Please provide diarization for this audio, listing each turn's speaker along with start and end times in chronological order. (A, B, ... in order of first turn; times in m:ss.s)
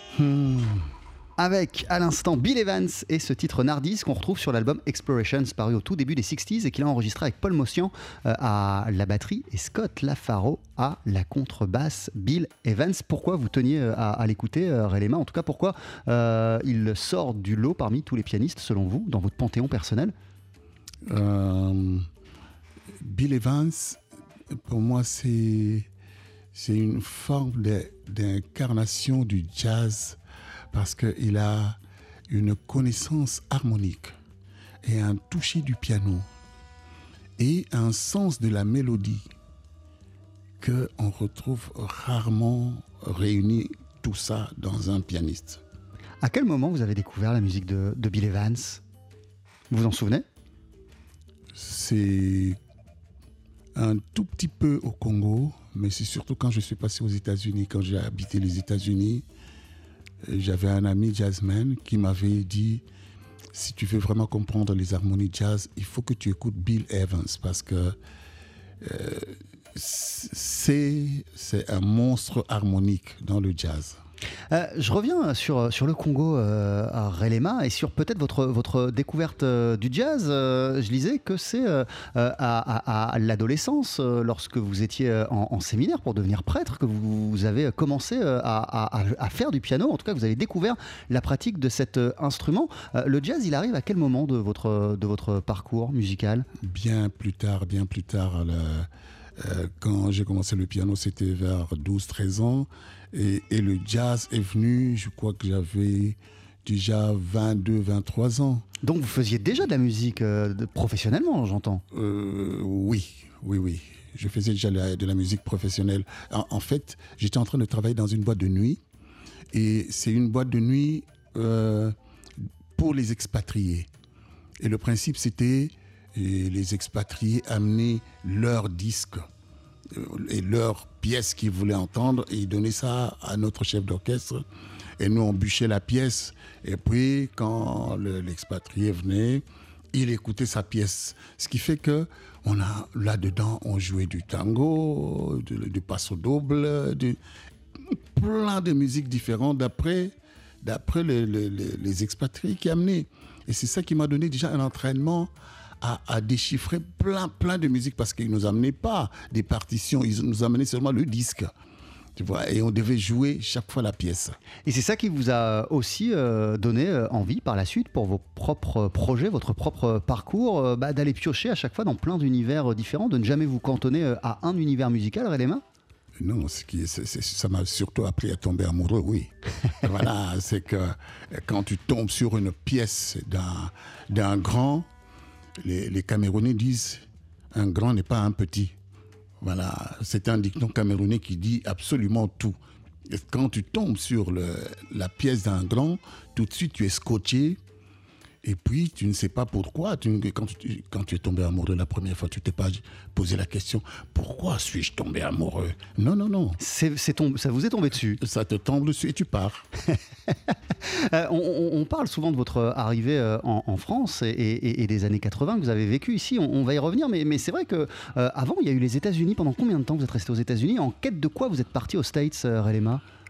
0:00.1-0:00.9 A
0:01.4-0:20.1 B
0:21.0-0:22.1 A
0:23.0-0:24.0 A
0:24.5-0:25.9 A
0:26.5-0:30.2 A
0:30.7-0:34.2 A
0:34.8-0:36.3 A
0:37.4-0:39.3 A
0:40.6-0:45.6 A
0:46.2-0:48.8 B
0:49.7-0:50.2 B
0:51.5-0:52.6 A
0:53.7-0:59.2 A
1:00.2-1:02.8 A
1:03.5-1:08.0 A
1:08.8-1:14.0 A
1:14.5-1:36.5 B
1:36.6-1:48.6 A
1:48.8-1:51.8 B
1:51.9-1:58.8 A
1:59.5-2:03.9 A
2:04.6-2:09.3 A
2:09.9-2:14.4 A
2:15.0-2:27.2 A
2:27.8-2:41.5 A
2:42.2-2:44.4 A
2:44.6-2:55.6 B
2:56.2-3:04.9 A
3:05.6-3:08.7 A
3:09.4-3:12.6 A
3:13.1-3:17.6 A
3:18.4-3:26.6 A
3:26.6-3:28.2 B
3:28.2-3:29.7 A
3:30.5-3:43.0 B